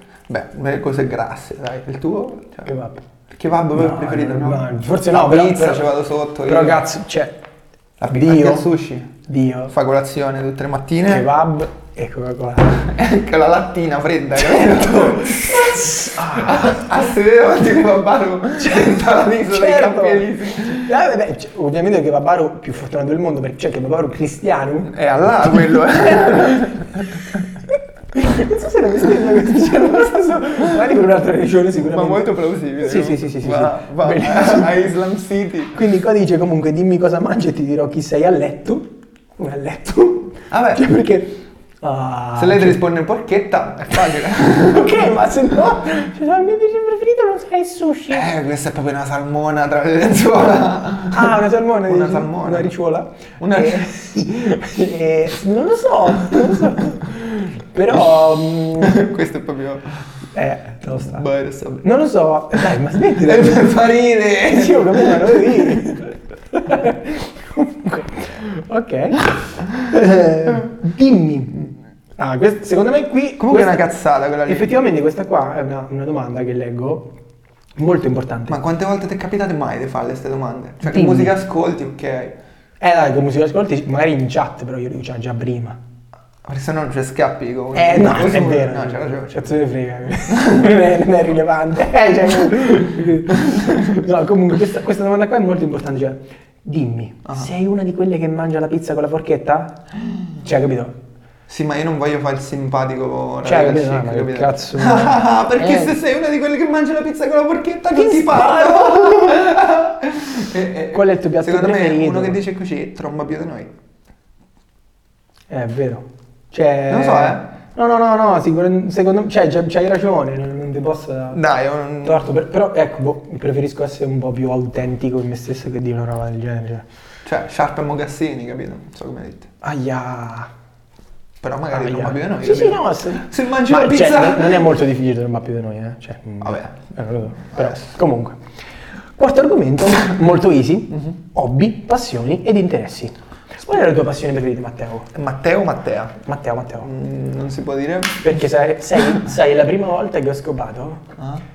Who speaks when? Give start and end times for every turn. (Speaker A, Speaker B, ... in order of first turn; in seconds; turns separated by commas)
Speaker A: 0.3-2.7, Speaker B: 2.7-3.0, Speaker A: 3.3-6.8, Speaker B: 3.7-5.9, Speaker B: 6.4-7.3, Speaker A: 8.0-9.1, Speaker B: 8.1-8.7, Speaker B: 9.3-9.7, Speaker A: 9.7-11.3, Speaker B: 11.1-12.9, Speaker A: 12.8-21.0, Speaker B: 14.4-16.9, Speaker B: 18.6-27.4, Speaker A: 24.9-27.4, Speaker B: 28.1-34.7, Speaker A: 29.2-30.0, Speaker A: 31.8-35.8, Speaker B: 35.7-42.8, Speaker A: 40.5-40.8, Speaker A: 42.3-45.2, Speaker B: 44.2-48.3, Speaker A: 48.1-52.7, Speaker B: 51.1-59.0, Speaker A: 53.4-54.5, Speaker A: 56.3-56.9, Speaker A: 58.8-60.0, Speaker B: 60.3-61.3, Speaker A: 60.9-61.8, Speaker B: 61.8-63.7, Speaker A: 62.5-65.9, Speaker B: 64.5-73.9, Speaker A: 73.4-74.8, Speaker B: 74.4-77.1, Speaker B: 77.8-78.6, Speaker A: 78.5-82.3, Speaker B: 80.8-81.4, Speaker B: 82.8-85.8, Speaker A: 86.5-89.5, Speaker B: 87.7-101.0, Speaker A: 93.5-93.7, Speaker A: 97.2-97.5, Speaker A: 101.5-113.7, Speaker B: 103.4-105.9, Speaker B: 107.9-109.5, Speaker B: 110.9-112.4, Speaker B: 115.5-121.4, Speaker A: 116.9-117.4, Speaker A: 121.3-122.3, Speaker B: 122.0-126.8, Speaker A: 127.2-129.5, Speaker B: 129.6-130.5, Speaker A: 131.4-134.7, Speaker B: 131.7-138.4, Speaker A: 136.4-136.7, Speaker A: 137.5-137.9, Speaker B: 139.2-145.1, Speaker A: 145.1-146.2, Speaker B: 146.2-146.9, Speaker A: 146.8-148.3, Speaker B: 148.2-151.1